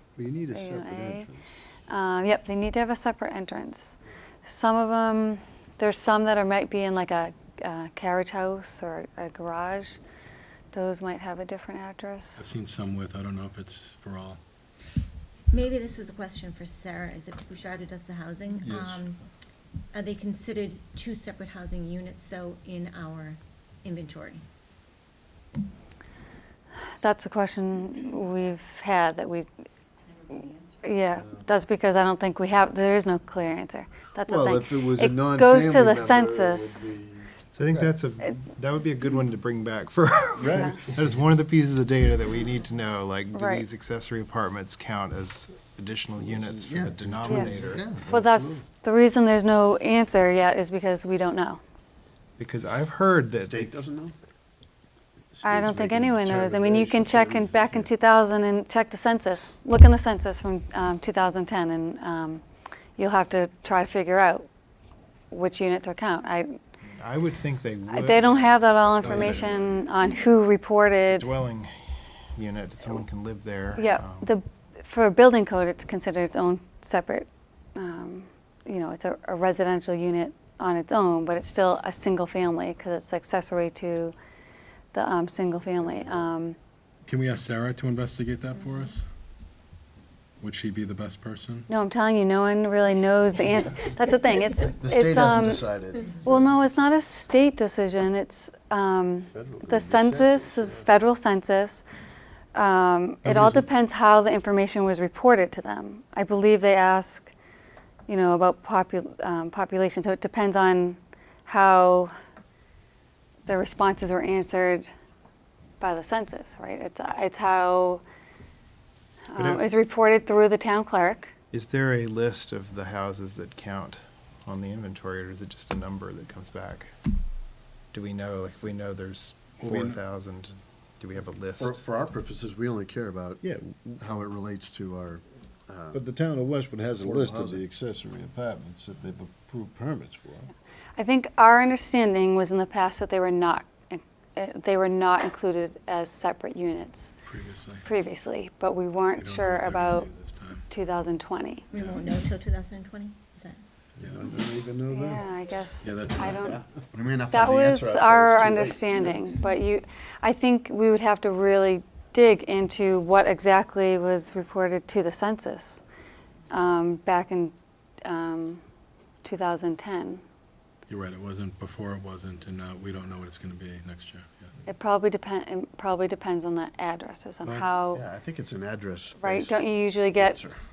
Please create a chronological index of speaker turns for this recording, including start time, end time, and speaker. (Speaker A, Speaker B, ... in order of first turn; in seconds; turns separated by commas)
Speaker A: 0.2-1.4, Speaker B: 0.5-1.3, Speaker B: 1.9-10.0, Speaker B: 10.7-12.4, Speaker C: 12.4-14.4, Speaker D: 15.5-19.2, Speaker E: 18.6-19.0, Speaker D: 19.9-24.4, Speaker B: 27.0-29.5, Speaker B: 30.3-37.0, Speaker E: 34.2-36.8, Speaker A: 35.9-37.9, Speaker F: 37.4-47.8, Speaker A: 40.4-40.8, Speaker E: 40.5-40.8, Speaker B: 43.3-43.6, Speaker E: 46.3-48.6, Speaker A: 46.7-47.6, Speaker B: 47.2-47.5, Speaker B: 48.1-51.6, Speaker F: 52.4-53.7, Speaker A: 53.4-54.1, Speaker A: 55.4-57.8, Speaker B: 55.4-62.4, Speaker B: 63.0-64.5, Speaker B: 65.3-66.6, Speaker F: 67.0-69.5, Speaker B: 67.9-71.3, Speaker A: 69.2-69.5, Speaker F: 71.0-74.3, Speaker B: 73.8-84.1, Speaker B: 84.9-86.5, Speaker C: 87.1-89.0, Speaker C: 90.4-91.7, Speaker B: 91.7-101.8, Speaker A: 94.6-96.2, Speaker A: 99.3-100.8, Speaker B: 102.5-107.3, Speaker C: 103.2-103.6, Speaker B: 108.1-112.1, Speaker B: 113.5-114.9, Speaker B: 115.8-118.0, Speaker B: 119.3-121.3, Speaker F: 119.3-119.7, Speaker F: 121.5-126.9, Speaker F: 127.9-131.8, Speaker C: 129.6-130.0, Speaker A: 131.6-133.4, Speaker E: 133.4-133.9, Speaker A: 134.0-136.0, Speaker E: 135.9-140.5, Speaker A: 136.9-137.6, Speaker B: 141.0-147.1, Speaker C: 147.2-147.8, Speaker B: 147.8-150.1, Speaker C: 149.2-150.7, Speaker B: 150.7-151.6, Speaker D: 151.7-153.6, Speaker C: 151.7-152.0, Speaker A: 154.0-154.6, Speaker C: 154.0-154.2, Speaker E: 154.3-155.2, Speaker B: 154.9-156.6, Speaker C: 155.8-156.6, Speaker A: 156.9-159.1, Speaker B: 157.3-165.8, Speaker B: 166.5-168.6, Speaker B: 169.2-170.2, Speaker C: 170.9-174.5, Speaker B: 174.7-178.0, Speaker A: 177.9-180.6, Speaker B: 179.2-180.4